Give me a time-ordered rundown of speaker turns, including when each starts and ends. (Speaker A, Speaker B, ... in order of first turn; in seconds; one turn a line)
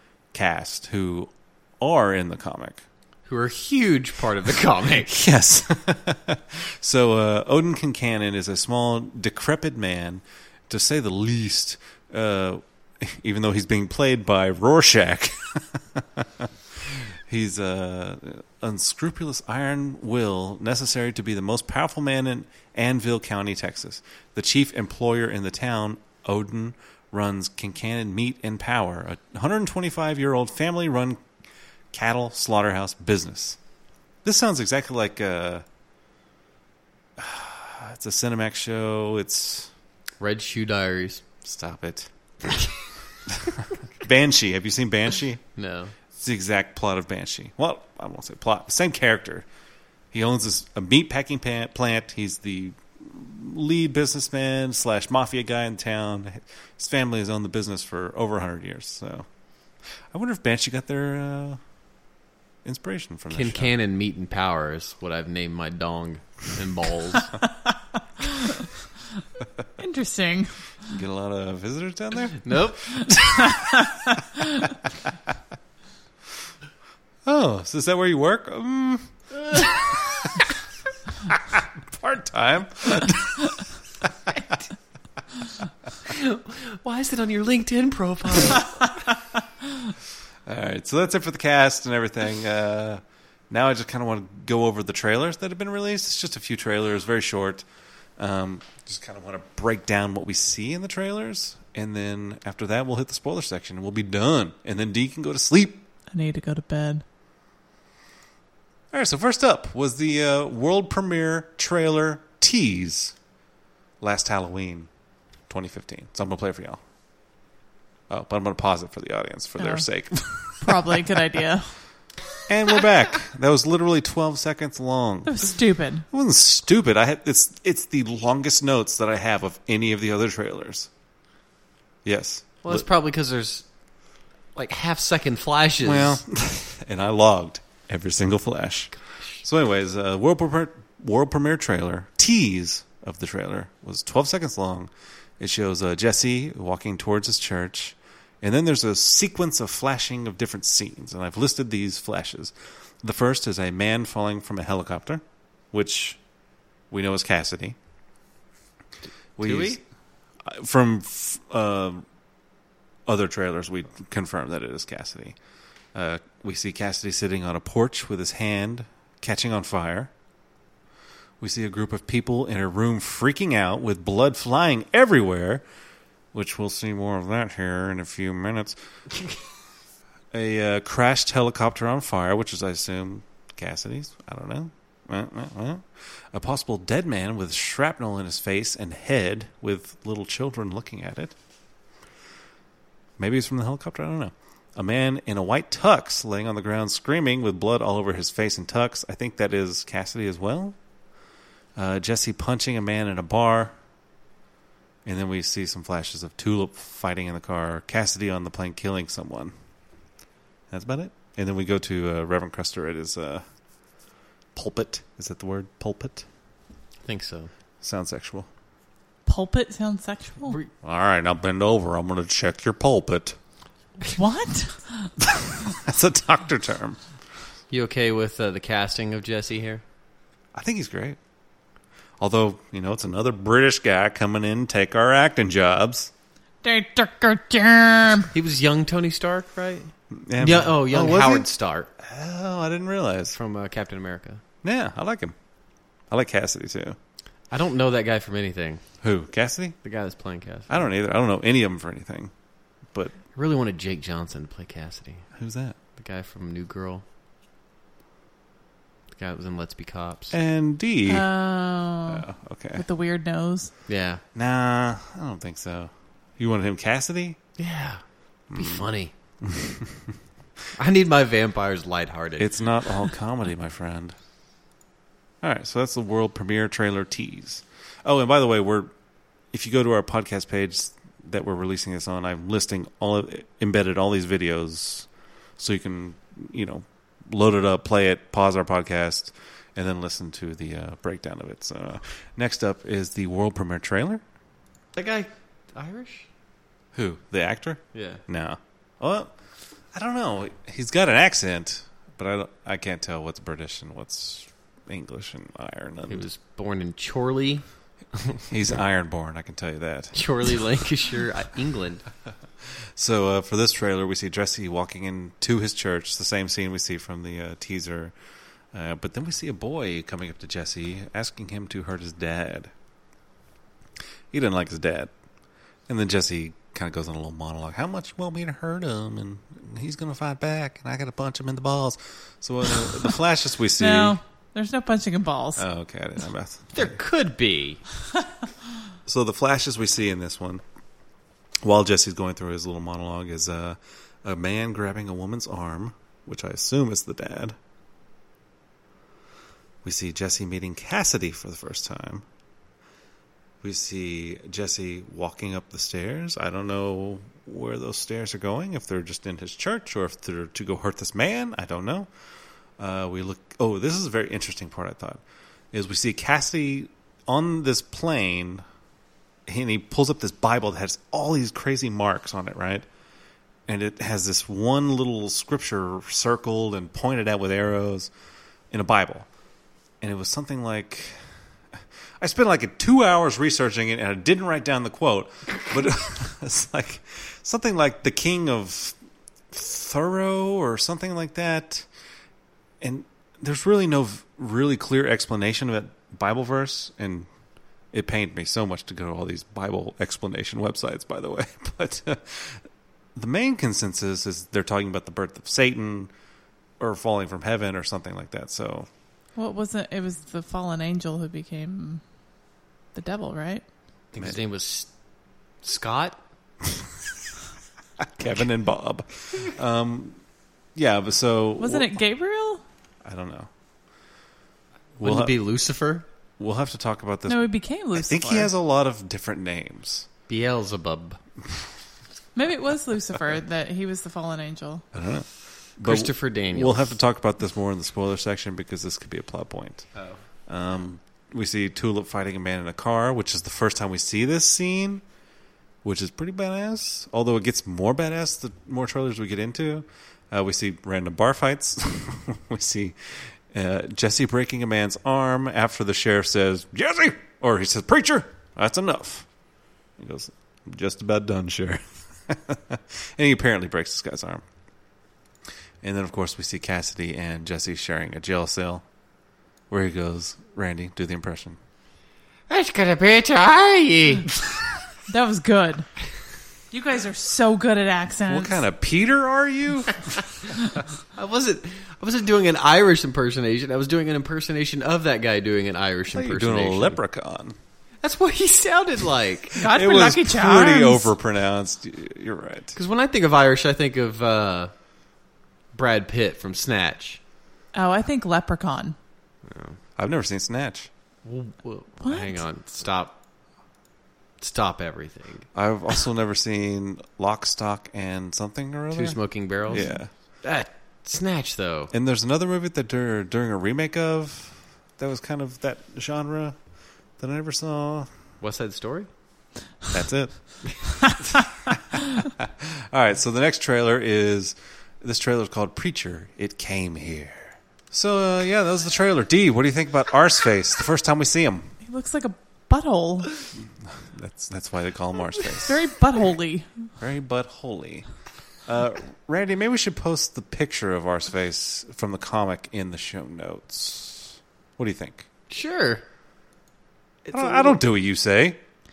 Speaker A: 0.3-2.8
Speaker B: 3.3-5.1
Speaker A: 5.0-31.2
Speaker A: 31.9-33.6
Speaker A: 34.2-35.6
Speaker A: 37.2-39.7
Speaker B: 40.2-41.2
Speaker A: 41.4-42.1
Speaker A: 43.3-45.4
Speaker B: 45.6-45.9
Speaker A: 46.1-49.5
Speaker A: 50.1-59.3
Speaker A: 60.1-61.6
Speaker A: 62.6-63.7
Speaker B: 63.3-67.4
Speaker C: 68.2-68.7
Speaker C: 69.8-70.6
Speaker A: 70.9-72.6
Speaker B: 72.4-73.1
Speaker C: 73.0-74.7
Speaker A: 73.1-73.7
Speaker A: 77.2-80.4
Speaker A: 81.3-83.6
Speaker B: 86.0-88.9
Speaker A: 90.5-97.7
Speaker A: 98.2-105.8
Speaker C: 106.1-107.0
Speaker A: 108.9-113.2
Speaker A: 114.0-114.9
Speaker A: 115.5-116.8
Speaker A: 118.1-121.4
Speaker C: 119.6-119.9
Speaker C: 120.6-121.7
Speaker A: 122.5-125.5
Speaker C: 125.3-126.1
Speaker A: 126.1-130.9
Speaker A: 132.1-132.9
Speaker B: 132.6-133.7
Speaker B: 134.6-136.2
Speaker A: 135.8-156.2
Speaker B: 139.1-139.4
Speaker A: 156.9-157.8
Speaker A: 159.4-159.8
Speaker B: 159.4-159.8
Speaker A: 160.4-162.1
Speaker A: 163.1-165.4
Speaker A: 165.9-170.1
Speaker A: 171.4-175.6
Speaker A: 176.3-178.8
Speaker A: 180.3-191.3
Speaker A: 193.2-200.8
Speaker A: 201.8-203.7
Speaker A: 205.1-209.5
Speaker A: 210.7-213.4
Speaker A: 214.6-216.2
Speaker B: 217.1-217.5
Speaker A: 217.8-218.5
Speaker C: 219.3-220.6
Speaker B: 220.5-220.7
Speaker A: 220.8-223.4
Speaker C: 224.1-225.1
Speaker A: 225.2-227.0
Speaker B: 227.7-229.8
Speaker A: 230.5-231.2
Speaker A: 232.2-236.1
Speaker C: 236.6-238.3
Speaker B: 238.3-241.9
Speaker A: 240.1-241.5
Speaker A: 242.0-243.4
Speaker B: 243.3-244.4
Speaker A: 244.6-245.3
Speaker A: 246.1-247.0
Speaker B: 247.5-248.8
Speaker A: 249.0-249.8
Speaker B: 249.8-250.8
Speaker A: 250.7-252.3
Speaker B: 253.3-255.3
Speaker A: 255.4-255.8
Speaker B: 256.0-257.0
Speaker B: 259.1-260.4
Speaker A: 260.3-261.3
Speaker C: 261.1-263.7
Speaker A: 262.1-262.9
Speaker B: 263.9-264.2
Speaker A: 264.4-267.4
Speaker B: 267.6-268.0
Speaker A: 268.5-268.9
Speaker B: 268.5-269.1
Speaker A: 269.4-270.1
Speaker B: 270.8-273.1
Speaker A: 272.4-274.2
Speaker A: 275.4-278.9
Speaker A: 279.5-285.1
Speaker A: 285.6-294.2
Speaker B: 294.9-296.3
Speaker A: 296.9-299.3
Speaker B: 297.9-298.2
Speaker A: 299.9-306.3
Speaker B: 306.1-308.5
Speaker A: 308.5-310.6
Speaker B: 310.1-312.1
Speaker A: 313.0-318.1
Speaker A: 318.7-322.7
Speaker A: 324.3-325.1
Speaker A: 325.9-334.2
Speaker C: 333.8-335.6
Speaker A: 335.6-337.0
Speaker B: 336.7-337.8
Speaker A: 339.1-340.6
Speaker A: 341.6-347.6
Speaker A: 349.8-352.3
Speaker A: 353.6-362.1
Speaker A: 362.8-365.2
Speaker A: 365.7-368.6
Speaker A: 369.5-372.9
Speaker A: 373.7-378.1
Speaker A: 378.7-379.3
Speaker A: 380.0-381.2
Speaker A: 382.2-389.0
Speaker A: 389.5-391.9
Speaker A: 392.8-397.3
Speaker A: 397.9-402.6
Speaker A: 403.1-406.1
Speaker A: 406.8-408.9
Speaker C: 409.4-412.0
Speaker C: 412.9-413.6
Speaker B: 414.1-414.9
Speaker B: 415.6-416.2
Speaker A: 418.0-420.2
Speaker A: 420.8-421.9
Speaker C: 421.6-422.6
Speaker A: 423.1-423.5
Speaker A: 425.0-425.4
Speaker B: 425.0-426.1
Speaker A: 426.4-427.4
Speaker C: 427.3-428.5
Speaker A: 427.9-430.1
Speaker B: 430.3-431.2
Speaker C: 432.4-434.9
Speaker A: 434.9-435.3
Speaker A: 435.8-439.9
Speaker B: 435.8-436.9
Speaker A: 440.5-445.0
Speaker A: 445.8-459.3
Speaker A: 460.0-464.4
Speaker A: 465.8-468.8
Speaker A: 469.7-471.6
Speaker B: 472.5-474.3
Speaker C: 475.1-475.9
Speaker C: 476.7-478.6
Speaker A: 478.3-480.5
Speaker B: 481.1-487.0
Speaker A: 486.1-487.6
Speaker B: 488.0-489.6
Speaker C: 489.6-491.1
Speaker A: 489.6-492.8
Speaker B: 492.8-494.7
Speaker B: 495.7-497.2
Speaker C: 497.7-499.0
Speaker B: 499.5-499.8
Speaker A: 500.0-500.9
Speaker B: 501.2-503.2
Speaker C: 502.0-502.4
Speaker B: 504.4-505.5
Speaker A: 505.5-510.1
Speaker B: 508.9-509.9
Speaker C: 509.7-510.0
Speaker B: 510.4-511.9
Speaker A: 511.9-516.6
Speaker A: 517.2-518.1
Speaker B: 518.4-519.1
Speaker A: 519.9-531.7
Speaker C: 531.8-533.3
Speaker A: 533.9-535.8
Speaker C: 535.5-536.7
Speaker A: 537.0-538.1
Speaker A: 538.7-545.3
Speaker B: 545.5-546.0
Speaker B: 547.3-547.8
Speaker A: 547.3-548.6